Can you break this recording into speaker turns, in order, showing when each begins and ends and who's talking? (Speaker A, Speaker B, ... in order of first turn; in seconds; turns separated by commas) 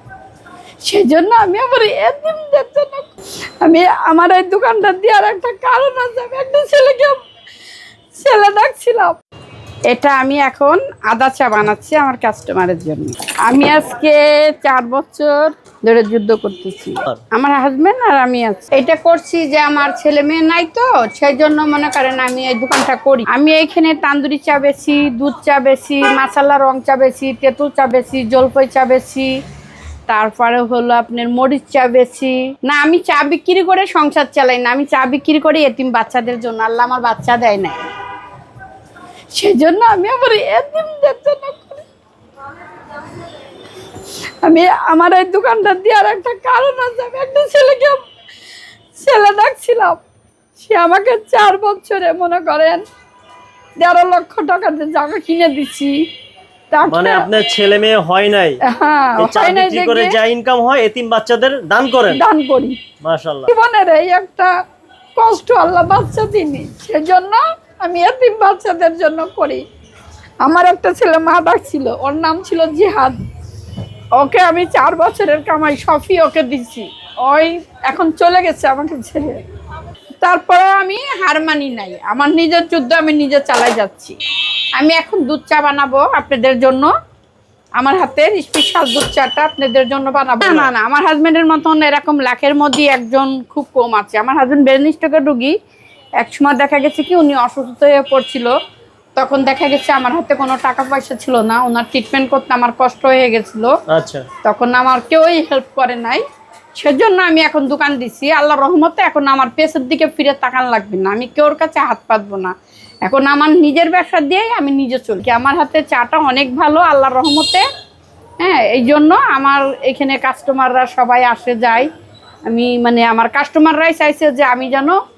Speaker A: 0.9-3.1, Speaker A: 3.6-7.2, Speaker A: 8.2-9.2, Speaker A: 9.9-29.3, Speaker A: 30.1-37.9, Speaker A: 39.3-41.9, Speaker A: 44.4-48.0, Speaker A: 49.0-50.0, Speaker A: 50.6-52.8, Speaker A: 53.8-56.0, Speaker A: 56.7-57.3, Speaker B: 56.9-58.6, Speaker A: 58.6-60.2, Speaker B: 59.2-62.2, Speaker A: 62.1-62.8, Speaker B: 63.0-63.5, Speaker A: 63.5-64.5, Speaker A: 65.2-69.6, Speaker A: 70.4-73.2, Speaker A: 74.2-79.4, Speaker A: 80.2-84.2, Speaker A: 84.8-86.9, Speaker A: 87.8-95.5, Speaker B: 90.4-90.7, Speaker A: 96.2-98.5, Speaker A: 99.2-103.7, Speaker B: 103.9-104.3, Speaker A: 104.5-106.2, Speaker A: 106.8-112.5, Speaker A: 113.0-117.6, Speaker A: 118.4-121.9, Speaker A: 122.5-125.0